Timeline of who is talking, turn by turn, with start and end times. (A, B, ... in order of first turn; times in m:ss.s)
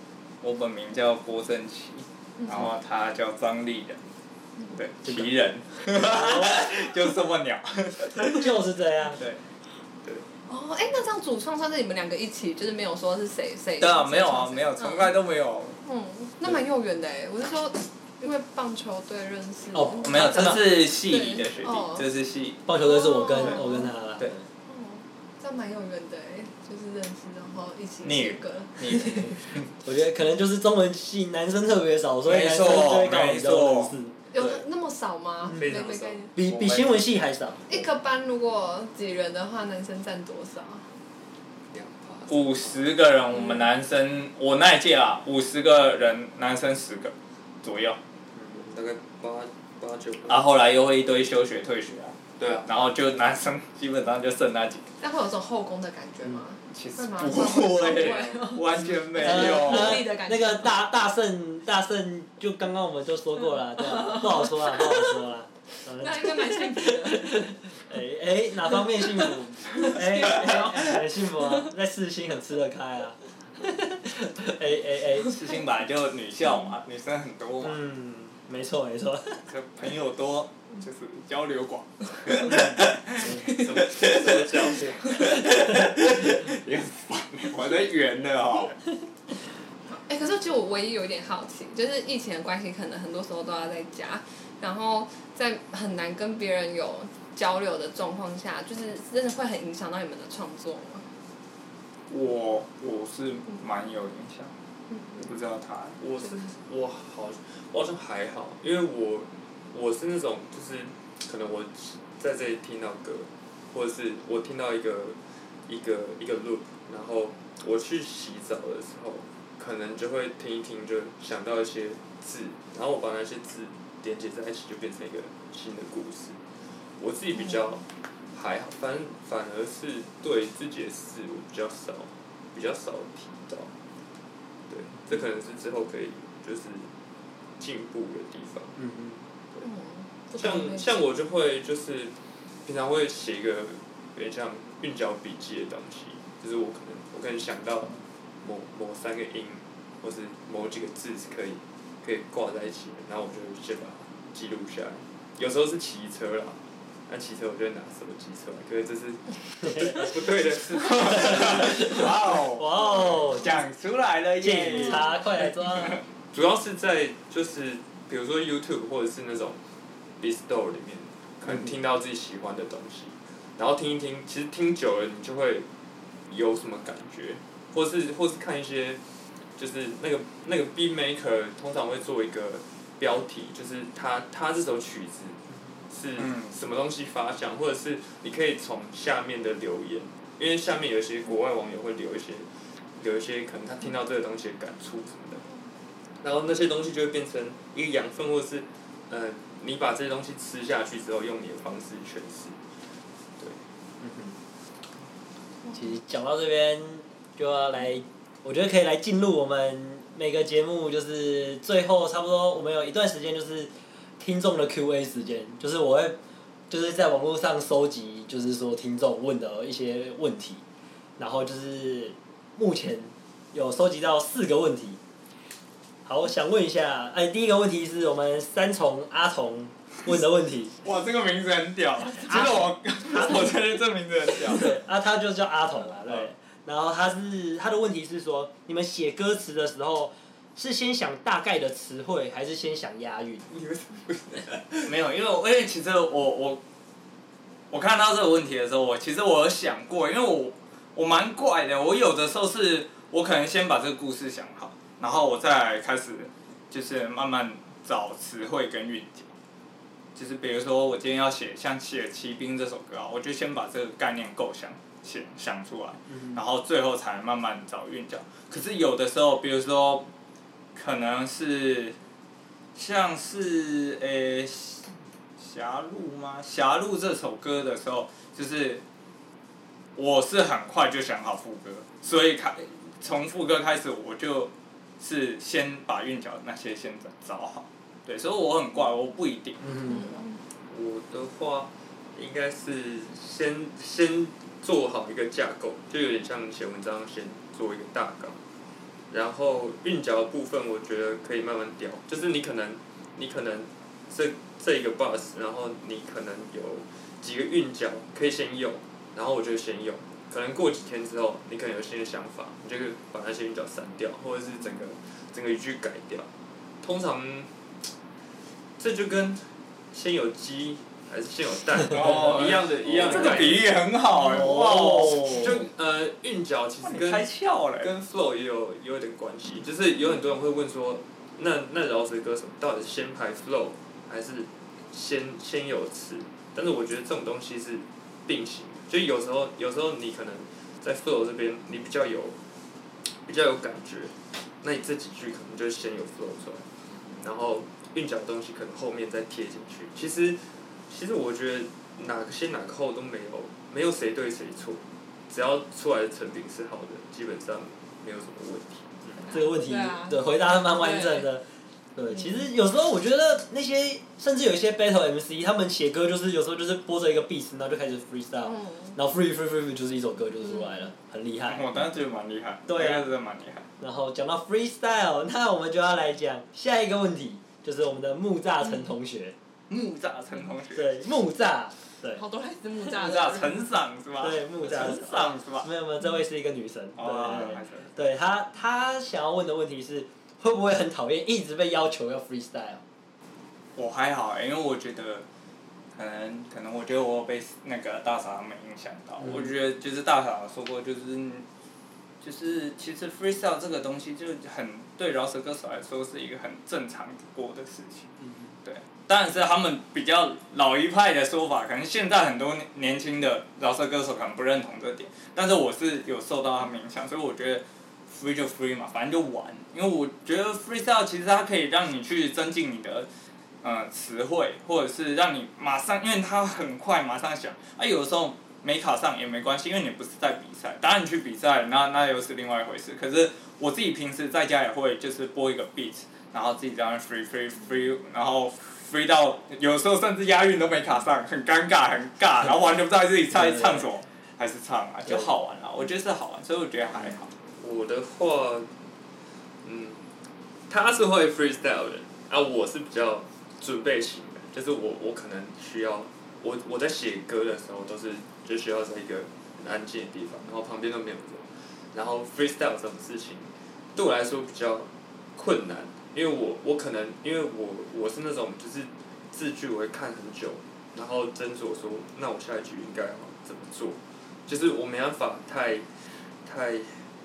0:00.4-0:04.0 A
0:04.7-0:08.5 A
0:06.0-0:06.6 B
0:08.2-0:09.2 B
0:09.2-0:09.4 A
0:10.5-0:15.1 C
0:13.8-0:15.8 A
0:15.8-0:22.1 C
0:19.7-0:22.6 A
0:22.7-0:24.4 B
0:22.8-0:23.9 C
0:24.7-0:29.4 C
0:28.0-0:29.7 A
0:29.8-0:34.6 B
0:32.2-0:33.9 A
0:34.3-0:36.3 C
0:35.6-0:36.8 D
0:36.4-0:37.8 B
0:36.5-0:36.9 A
0:37.7-0:40.9 C
0:41.7-0:42.9 D
0:42.3-0:48.0 A
0:43.4-0:43.7 C
0:48.5-0:50.5 D
0:50.3-0:54.8 A
0:52.4-0:52.7 D
0:55.0-1:00.7 C
0:56.7-1:00.1 A
0:58.0-0:58.4 D
0:59.2-1:15.4 B
1:03.8-1:05.1 C
1:06.0-1:07.5 C
1:09.2-1:11.5 C
1:15.2-1:17.8 A
1:17.6-1:19.4 B
1:19.5-1:24.5 A
1:23.4-1:25.3 D
1:25.1-1:28.8 A
1:29.9-1:41.1 C
1:42.1-1:44.5 A
1:45.2-1:46.0 A
1:46.0-2:06.4 D
2:07.0-2:13.7 D
2:14.7-2:16.9 D
2:17.6-2:18.8 D
2:18.8-2:19.2 B
2:19.6-2:21.0 C
2:20.4-2:22.1 D
2:22.7-2:42.1 D
2:39.6-2:40.0 B
2:40.7-2:46.0 A
2:41.1-2:43.6 B
2:44.4-2:46.0 B
2:46.3-2:49.6 D
2:50.2-2:55.7 D
2:56.3-2:59.0 D
2:59.6-3:05.4 D
3:05.9-3:12.5 D
3:06.2-3:06.5 A
3:13.0-3:15.4 D
3:16.2-3:22.6 D
3:24.0-3:24.4 B
3:25.7-3:36.2 B
3:36.7-3:40.6 B
3:41.2-3:45.0 B
3:46.0-3:50.7 B
3:50.8-3:54.8 A
3:52.3-3:53.4 B
3:54.5-4:03.4 B
4:03.5-4:04.9 D
4:04.8-4:06.6 A
4:07.7-4:19.3 A
4:20.2-4:30.1 A
4:30.8-4:32.0 A
4:32.8-4:38.8 A
4:40.0-4:50.0 A
4:49.6-4:50.1 B
4:50.7-4:58.4 D
4:59.1-5:16.3 D
5:16.8-5:17.5 D
5:18.8-5:23.9 D
5:21.9-5:25.6 A
5:24.2-5:25.6 B
5:25.3-5:27.3 D
5:26.8-5:27.9 A
5:27.8-5:42.4 D
5:43.3-5:46.6 D
5:47.2-5:59.2 D
5:59.2-6:01.2 C
5:59.3-6:01.4 B
6:02.0-6:11.7 B
6:08.6-6:08.9 C
6:11.5-6:13.7 A
6:12.7-6:13.1 B
6:13.8-6:19.4 B
6:19.7-6:21.0 A
6:20.8-6:22.2 B
6:22.2-6:23.7 C
6:22.9-6:25.7 A
6:24.2-6:32.8 B
6:27.0-6:27.9 A
6:33.8-6:35.2 A
6:36.0-6:41.4 A
6:42.2-6:48.1 A
6:48.6-7:03.1 A
7:03.6-7:27.3 A
7:23.4-7:23.9 B
7:27.6-7:28.7 D
7:29.6-7:30.0 D
7:30.7-7:55.9 D
7:56.4-7:57.0 D